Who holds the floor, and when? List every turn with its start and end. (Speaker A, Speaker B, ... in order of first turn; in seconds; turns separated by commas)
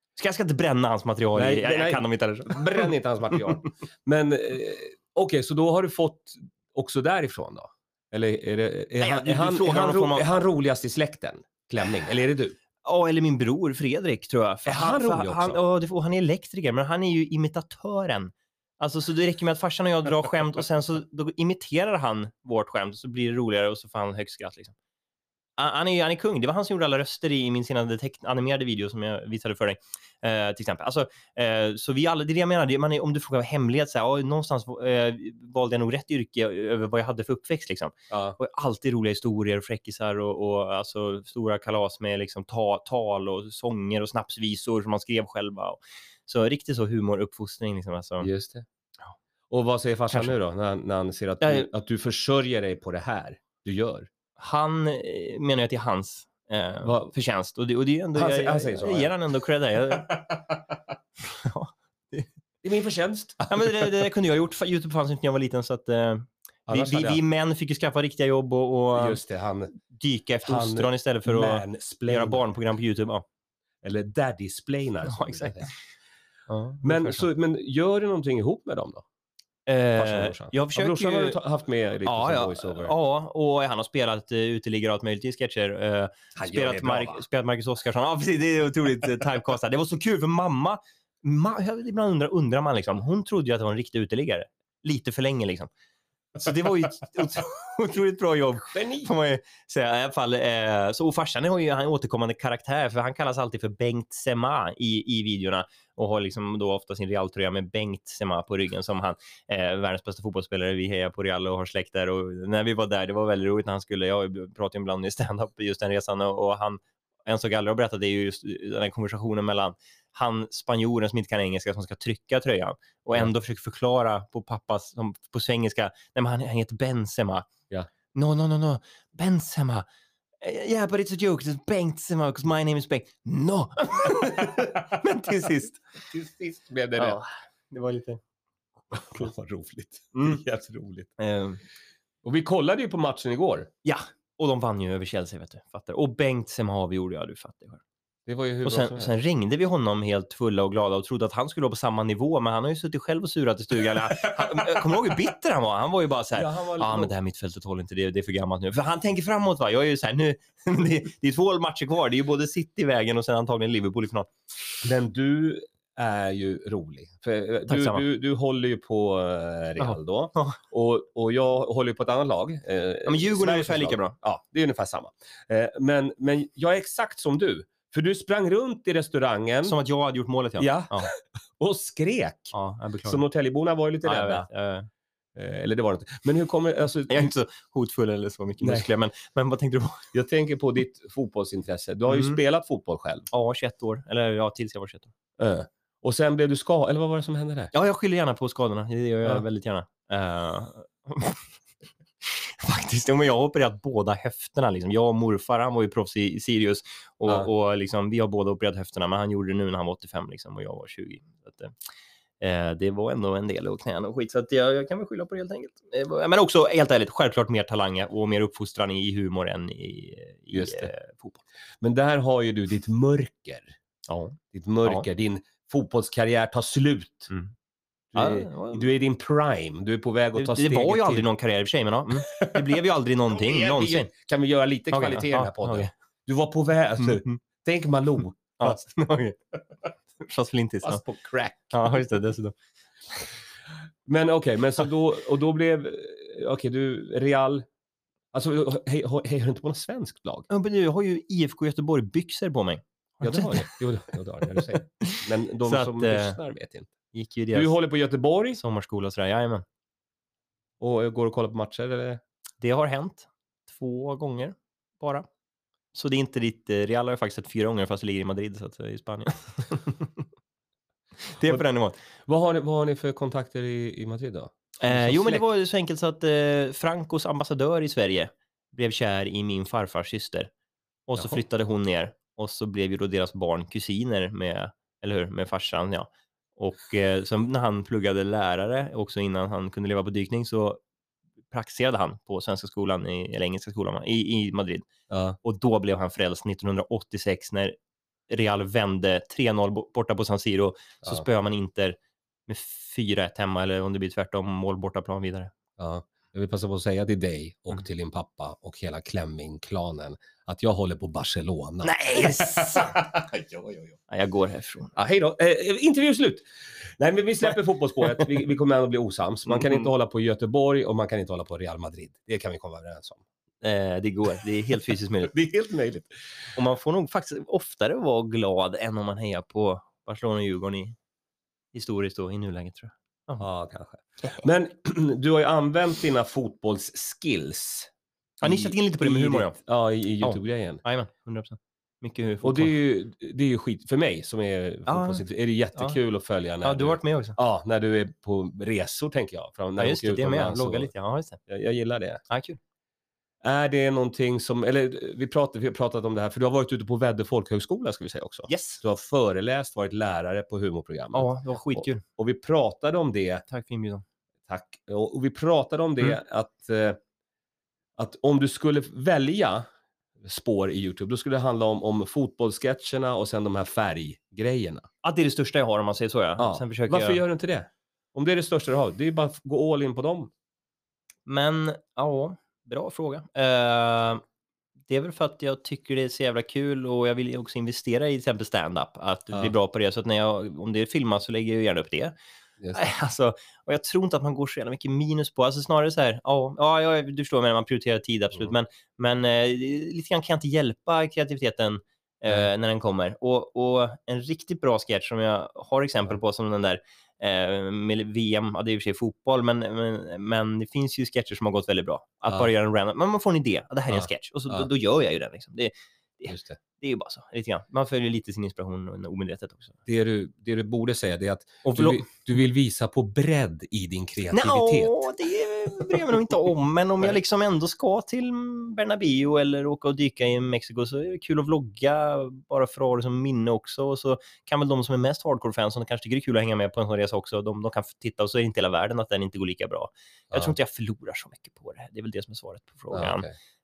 Speaker A: 0.1-3.4, Speaker B: 1.3-12.6, Speaker A: 9.0-10.2, Speaker A: 12.8-24.7, Speaker B: 14.7-15.6, Speaker A: 25.6-48.3, Speaker B: 38.1-38.4, Speaker B: 48.2-48.6, Speaker B: 49.5-54.1, Speaker A: 51.4-51.7, Speaker A: 54.4-60.2, Speaker B: 56.8-57.1, Speaker B: 58.1-59.1, Speaker A: 61.2-62.3, Speaker B: 62.6-63.9, Speaker A: 63.5-69.2, Speaker B: 66.7-67.2, Speaker B: 68.9-69.7, Speaker A: 69.8-73.2, Speaker B: 70.4-72.5, Speaker B: 73.8-75.7, Speaker A: 75.0-75.7, Speaker A: 76.5-77.2, Speaker B: 76.8-79.0, Speaker A: 79.7-81.4, Speaker B: 80.0-82.9, Speaker A: 82.0-95.7, Speaker B: 86.3-87.2, Speaker A: 96.3-127.5, Speaker B: 98.7-99.1, Speaker A: 128.1-129.8, Speaker A: 130.4-135.8, Speaker B: 136.0-137.2, Speaker A: 137.0-138.2, Speaker A: 138.9-139.3, Speaker B: 138.9-141.1, Speaker A: 141.2-141.6, Speaker B: 142.2-143.7, Speaker A: 143.8-147.8, Speaker B: 148.3-149.1, Speaker A: 148.6-164.3, Speaker B: 154.2-155.0, Speaker B: 156.3-157.1, Speaker B: 164.8-179.7, Speaker A: 167.7-168.0, Speaker A: 169.8-170.6, Speaker A: 173.1-174.2, Speaker A: 179.6-181.1, Speaker B: 180.6-182.5, Speaker A: 182.5-183.2, Speaker B: 183.1-184.5, Speaker A: 184.0-184.9, Speaker B: 185.3-187.3, Speaker A: 187.1-190.1, Speaker B: 188.6-188.9, Speaker B: 190.1-193.3, Speaker A: 192.1-192.4, Speaker A: 193.3-195.1, Speaker B: 195.4-197.7, Speaker A: 197.7-201.5, Speaker A: 202.2-211.8, Speaker A: 212.4-221.4, Speaker B: 220.5-220.9, Speaker B: 221.8-223.7, Speaker A: 224.1-225.1, Speaker B: 224.5-227.3, Speaker B: 228.1-231.2, Speaker A: 228.2-228.8, Speaker A: 230.3-234.1, Speaker B: 232.2-232.6, Speaker B: 233.3-238.8, Speaker A: 234.9-235.9, Speaker A: 237.0-237.3, Speaker A: 238.6-239.4, Speaker A: 240.2-241.0, Speaker B: 240.8-242.1, Speaker A: 241.7-242.5, Speaker B: 244.1-247.7, Speaker B: 248.3-250.5, Speaker A: 250.5-253.8, Speaker B: 253.2-256.9, Speaker A: 254.5-256.4, Speaker A: 257.1-257.7, Speaker B: 257.5-258.6, Speaker A: 258.6-259.6, Speaker B: 260.8-262.2, Speaker A: 262.6-265.2, Speaker A: 265.9-270.2, Speaker A: 271.3-271.9, Speaker B: 272.2-275.4, Speaker A: 274.8-280.5, Speaker A: 281.1-290.8, Speaker A: 291.5-294.9, Speaker B: 295.1-295.4, Speaker A: 295.4-297.8, Speaker A: 298.3-305.5, Speaker B: 305.8-314.0, Speaker A: 311.8-313.0, Speaker A: 314.1-315.0, Speaker B: 314.9-323.2, Speaker A: 319.5-319.9, Speaker A: 323.6-325.3, Speaker B: 325.2-326.1, Speaker A: 326.6-330.9, Speaker A: 331.7-333.4, Speaker B: 333.4-337.9, Speaker A: 338.4-339.6, Speaker B: 338.4-340.8, Speaker A: 340.2-342.7, Speaker B: 342.4-350.9, Speaker A: 344.9-345.2, Speaker A: 346.6-347.4, Speaker A: 349.8-351.4, Speaker B: 351.4-352.2, Speaker A: 352.3-352.6, Speaker B: 353.4-363.4, Speaker A: 358.5-358.8, Speaker A: 361.1-362.0, Speaker A: 363.5-364.0, Speaker B: 364.5-367.0, Speaker B: 368.0-369.6, Speaker B: 370.2-374.9, Speaker A: 375.0-377.2, Speaker B: 376.4-380.3, Speaker A: 381.2-384.2, Speaker A: 384.9-392.1, Speaker A: 392.7-419.8, Speaker B: 413.9-414.7, Speaker B: 416.3-416.6, Speaker B: 419.9-425.0, Speaker A: 421.6-422.0, Speaker A: 424.3-443.2, Speaker B: 440.3-440.6, Speaker B: 442.9-443.3